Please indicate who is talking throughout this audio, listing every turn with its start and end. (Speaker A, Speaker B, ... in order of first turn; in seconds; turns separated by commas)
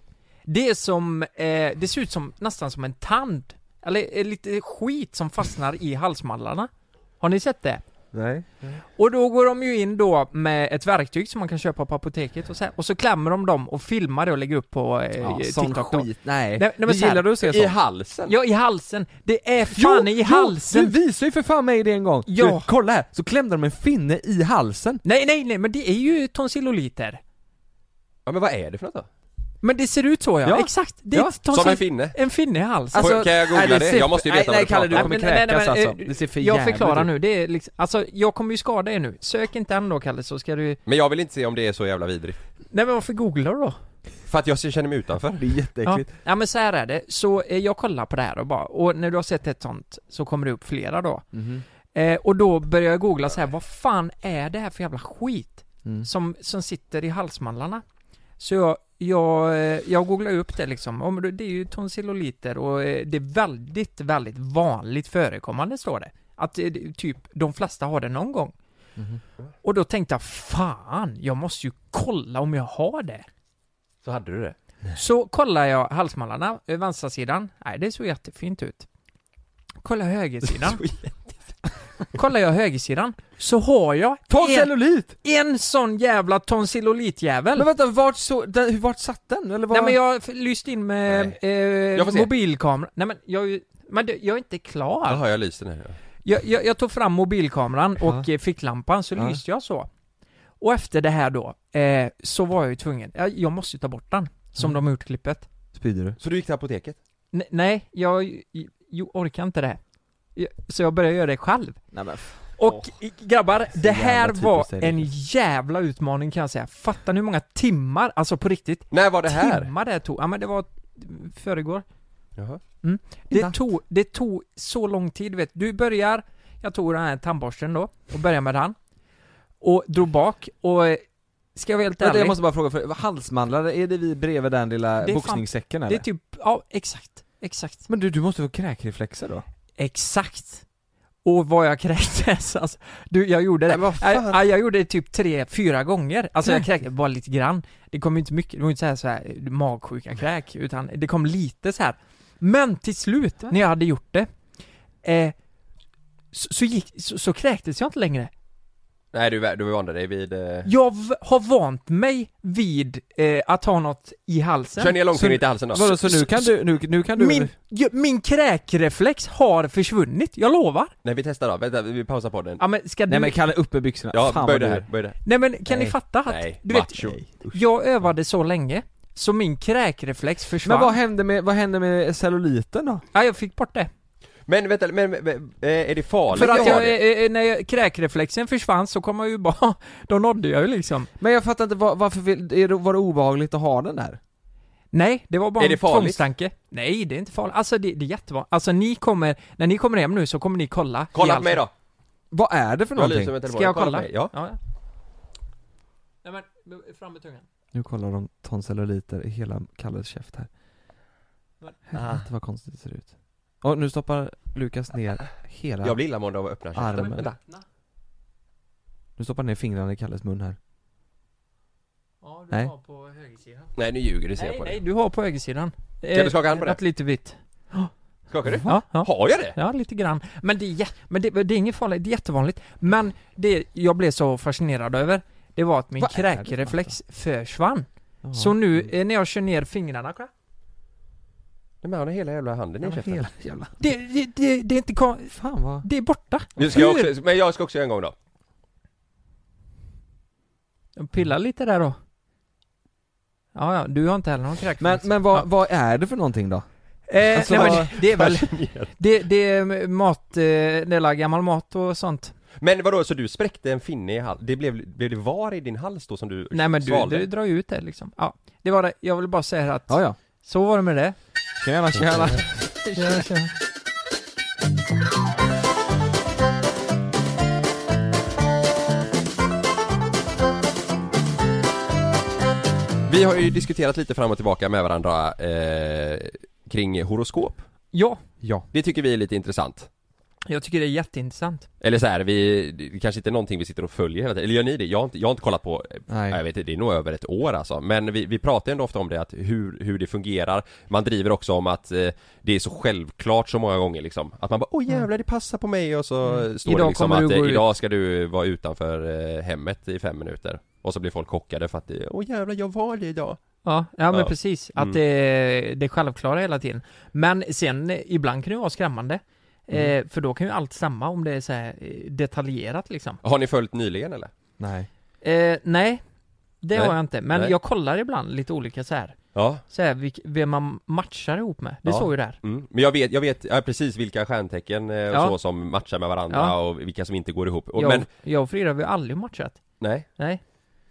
Speaker A: 0.5-7.8, Speaker B: 8.1-8.8, Speaker A: 8.9-17.3, Speaker B: 15.2-17.7, Speaker C: 17.4-18.3, Speaker A: 18.3-20.9, Speaker B: 19.7-25.0, Speaker A: 22.3-22.7, Speaker A: 25.0-27.2, Speaker C: 28.2-29.1, Speaker A: 29.6-33.2, Speaker B: 30.4-31.4, Speaker C: 31.5-32.1, Speaker B: 32.9-37.1, Speaker C: 33.0-35.1, Speaker A: 34.9-40.8, Speaker C: 40.9-42.4, Speaker A: 42.7-43.8, Speaker C: 44.3-45.4, Speaker B: 45.4-46.1, Speaker A: 45.9-51.2, Speaker B: 51.3-51.6, Speaker A: 51.9-57.8, Speaker A: 58.4-68.5, Speaker B: 69.0-69.2, Speaker A: 69.6-73.2, Speaker C: 74.0-74.5, Speaker A: 75.0-78.9, Speaker A: 79.8-80.8, Speaker A: 82.1-87.7, Speaker B: 84.3-85.1, Speaker B: 87.5-90.0, Speaker A: 89.7-95.2, Speaker C: 91.1-91.4, Speaker C: 91.9-92.3, Speaker C: 95.0-96.0, Speaker A: 96.2-99.9, Speaker B: 99.2-99.4, Speaker A: 100.6-105.4, Speaker B: 105.7-106.2, Speaker C: 106.2-107.0, Speaker A: 107.3-109.8, Speaker A: 110.3-111.8, Speaker B: 111.9-112.9, Speaker A: 112.5-121.8, Speaker B: 113.7-115.1, Speaker C: 118.9-119.7, Speaker A: 122.8-128.8, Speaker B: 123.3-123.5, Speaker A: 129.6-131.0, Speaker A: 131.5-132.4, Speaker B: 132.0-136.0, Speaker A: 135.0-137.8, Speaker B: 137.9-139.4, Speaker A: 139.8-140.6, Speaker A: 141.2-154.3, Speaker A: 155.0-155.3, Speaker A: 156.3-158.3, Speaker C: 159.1-160.7, Speaker A: 160.6-165.0, Speaker C: 164.8-166.3, Speaker B: 165.1-167.5, Speaker A: 167.2-170.9, Speaker C: 171.0-172.6, Speaker A: 172.6-173.4, Speaker B: 173.1-174.9, Speaker C: 174.1-175.2, Speaker A: 175.2-180.9, Speaker B: 175.7-175.9, Speaker C: 176.3-177.1, Speaker B: 176.9-177.6, Speaker B: 180.6-183.0, Speaker A: 183.1-183.9, Speaker C: 184.5-187.0, Speaker A: 186.3-191.1, Speaker B: 186.4-186.8, Speaker B: 191.2-194.2, Speaker A: 194.9-201.6, Speaker C: 195.6-196.2, Speaker C: 201.1-201.7, Speaker B: 202.3-203.3, Speaker C: 202.9-204.3, Speaker A: 203.5-204.6, Speaker A: 206.2-207.4, Speaker B: 207.7-210.5, Speaker B: 211.9-216.0, Speaker C: 215.8-217.3, Speaker B: 216.7-217.2, Speaker A: 216.9-217.6, Speaker B: 219.2-220.6, Speaker A: 222.2-223.7, Speaker C: 223.8-224.8, Speaker A: 224.3-227.9, Speaker C: 226.1-226.8, Speaker C: 228.3-229.6, Speaker B: 228.4-228.7, Speaker A: 228.7-240.3, Speaker B: 236.0-236.9, Speaker B: 238.2-238.8, Speaker C: 241.8-243.2, Speaker B: 242.8-243.7, Speaker A: 243.8-247.1, Speaker B: 245.3-245.8, Speaker C: 246.6-248.1, Speaker A: 250.9-251.9, Speaker A: 253.5-255.5, Speaker B: 254.8-256.6, Speaker A: 257.1-262.3, Speaker B: 257.2-258.1, Speaker C: 257.4-258.9, Speaker C: 262.6-267.3, Speaker A: 266.5-271.1, Speaker B: 269.9-270.2, Speaker B: 271.6-273.3, Speaker A: 273.0-273.5, Speaker C: 283.1-287.6, Speaker A: 287.9-288.2, Speaker B: 288.4-288.7, Speaker C: 288.7-289.9, Speaker A: 290.5-291.7, Speaker C: 291.8-313.4, Speaker B: 296.1-296.4, Speaker A: 306.6-307.6, Speaker A: 313.6-323.2, Speaker C: 314.1-315.0, Speaker C: 323.2-324.3, Speaker B: 324.6-324.9, Speaker A: 325.2-326.0, Speaker A: 326.6-329.2, Speaker C: 326.7-327.5, Speaker C: 329.3-329.6, Speaker A: 329.7-332.4, Speaker C: 331.9-338.1, Speaker A: 336.3-336.5, Speaker A: 337.8-340.4, Speaker C: 339.8-340.1